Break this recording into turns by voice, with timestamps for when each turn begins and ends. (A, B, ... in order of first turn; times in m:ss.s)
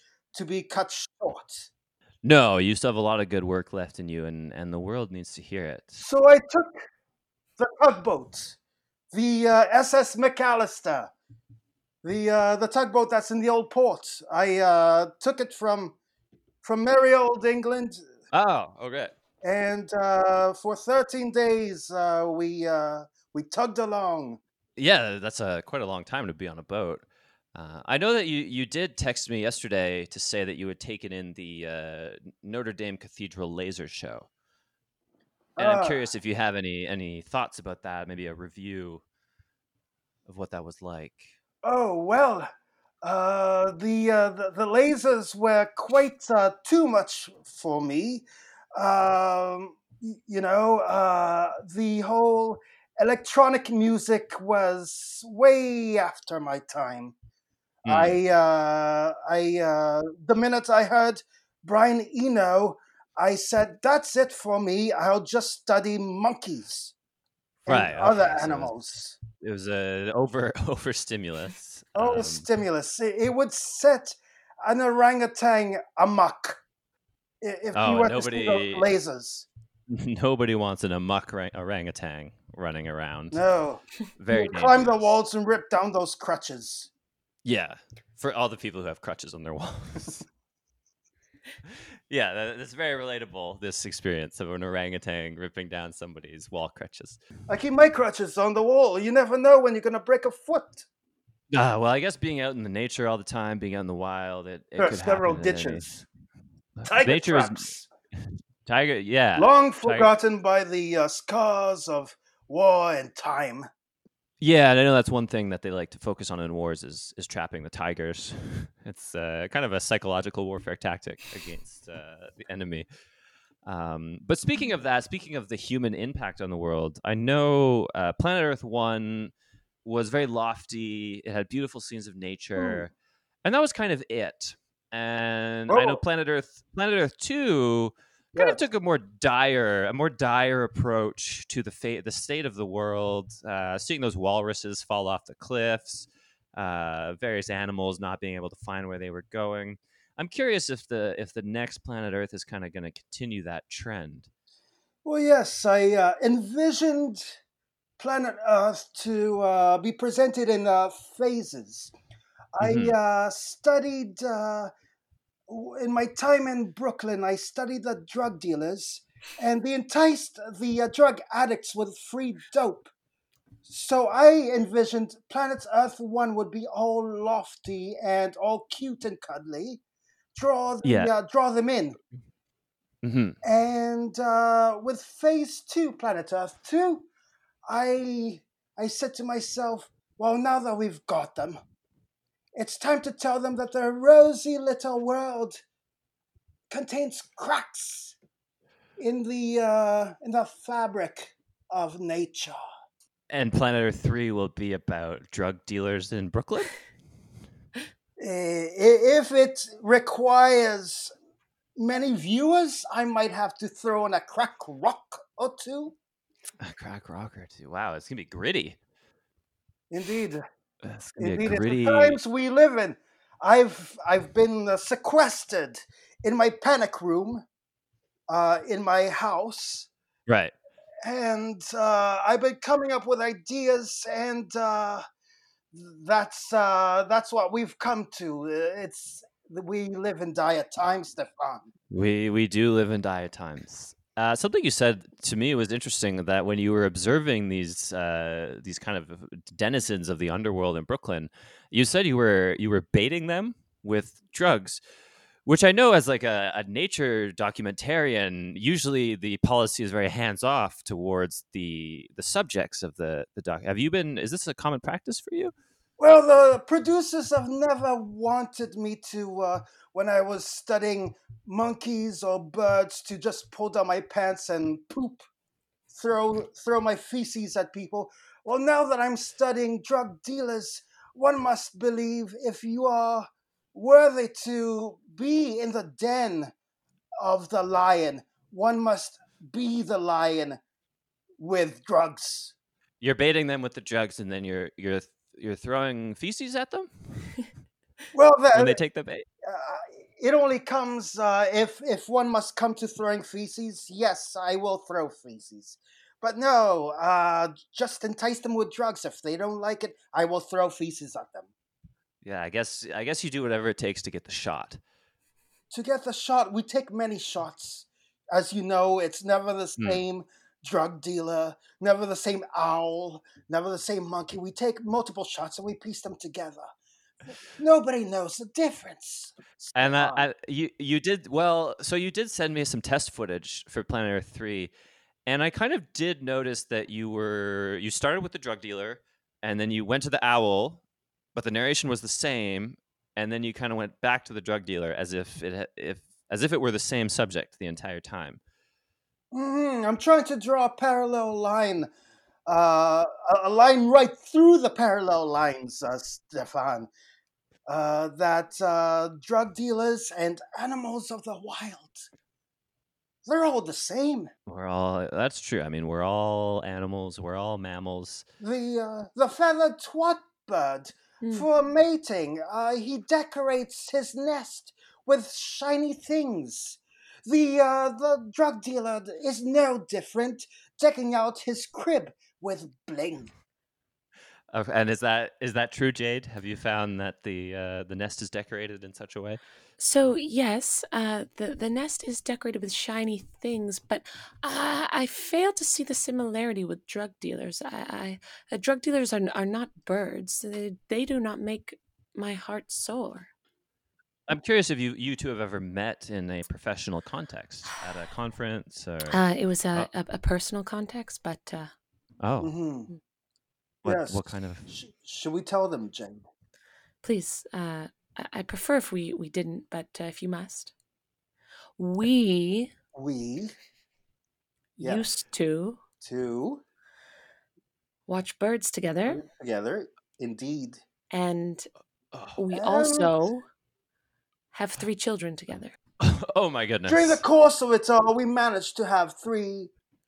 0:00.3-0:01.7 A
0:02.2-0:06.0 B
0:06.0-0:06.8 A
0:07.6-0:08.6 A
0:09.1-0:11.1 A
0:12.0-0:16.0 A
0:16.6-0:18.0 A
0:18.3-0:19.1 B
0:19.4-0:24.4 A
0:24.8-0:34.3 B
0:35.6-0:36.1 A
0:35.6-0:39.0 B
0:40.2-0:41.3 B
0:41.6-0:42.5 A
0:43.0-0:57.1 A
0:57.8-0:58.2 B
0:57.9-1:06.9 A
1:07.6-1:08.7 B
1:07.6-1:09.2 A
1:09.4-1:12.4 B
1:12.0-1:16.6 A
1:17.4-1:19.5 A
1:17.7-1:18.9 B
1:19.9-1:23.4 B
1:23.3-1:26.9 A
1:24.2-1:25.2 B
1:27.4-1:30.3 B
1:32.1-1:37.2 B
1:37.5-1:40.8 A
1:41.5-1:45.9 B
1:44.8-1:46.0 A
1:46.8-1:47.7 B
1:46.9-1:47.9 A
1:48.6-1:50.1 B
1:49.3-1:53.7 A
1:54.4-2:02.8 B
2:03.6-2:09.3 B
2:09.8-2:12.9 B
2:13.4-2:34.3 B
2:15.7-2:16.0 A
2:18.3-2:18.6 A
2:35.0-2:37.4 A
2:38.0-2:41.9 A
2:42.5-2:44.7 A
2:42.6-2:42.9 B
2:45.5-2:52.9 A
2:53.6-2:59.8 A
3:00.3-3:02.0 A
3:00.8-3:01.1 B
3:03.0-3:03.4 B
3:03.4-3:07.1 A
3:07.7-3:11.6 A
3:12.6-3:15.6 A
3:16.7-3:18.2 A
3:19.0-3:22.6 A
3:23.3-3:26.8 B
3:28.2-3:31.1 A
3:31.8-3:35.9 A
3:36.6-3:38.8 B
3:39.9-3:40.4 A
3:40.8-3:42.2 B
3:41.2-3:47.4 A
3:48.3-3:49.9 A
3:50.3-3:50.5 B
3:51.0-3:55.0 A
3:55.7-4:01.7 A
4:01.9-4:14.8 B
4:15.4-4:25.5 B
4:26.0-4:35.2 A
4:35.9-4:46.5 A
4:47.2-4:50.6 A
4:51.4-4:52.5 A
4:53.0-4:57.4 B
4:58.1-4:58.8 A
4:58.5-4:59.2 B
4:59.4-5:11.5 A
5:12.2-5:14.8 B
5:15.7-5:26.7 A
5:27.6-5:30.2 A
5:29.8-5:34.7 B
5:35.3-5:40.8 B
5:41.3-5:48.4 B
5:49.3-5:51.9 A
5:52.5-5:56.9 A
5:57.7-6:02.1 A
6:03.2-6:04.3 A
6:04.5-6:08.2 B
6:08.4-6:23.3 A
6:24.5-6:29.4 B
6:29.8-6:43.3 C
6:44.3-6:49.2 B
6:49.1-6:51.7 C
6:52.2-6:52.5 B
6:52.4-6:52.9 A
6:53.8-6:54.7 B
6:53.8-6:56.2 A
6:57.0-7:00.7 C
7:01.8-7:02.7 C
7:02.9-7:03.5 A
7:04.8-7:05.0 A
7:04.8-7:05.8 C
7:06.0-7:06.6 A
7:08.1-7:09.2 C
7:09.1-7:10.8 A
7:11.1-7:11.7 C
7:12.4-7:13.4 C
7:12.5-7:13.1 A
7:14.5-7:15.8 C
7:16.0-7:17.2 B
7:16.9-7:19.7 A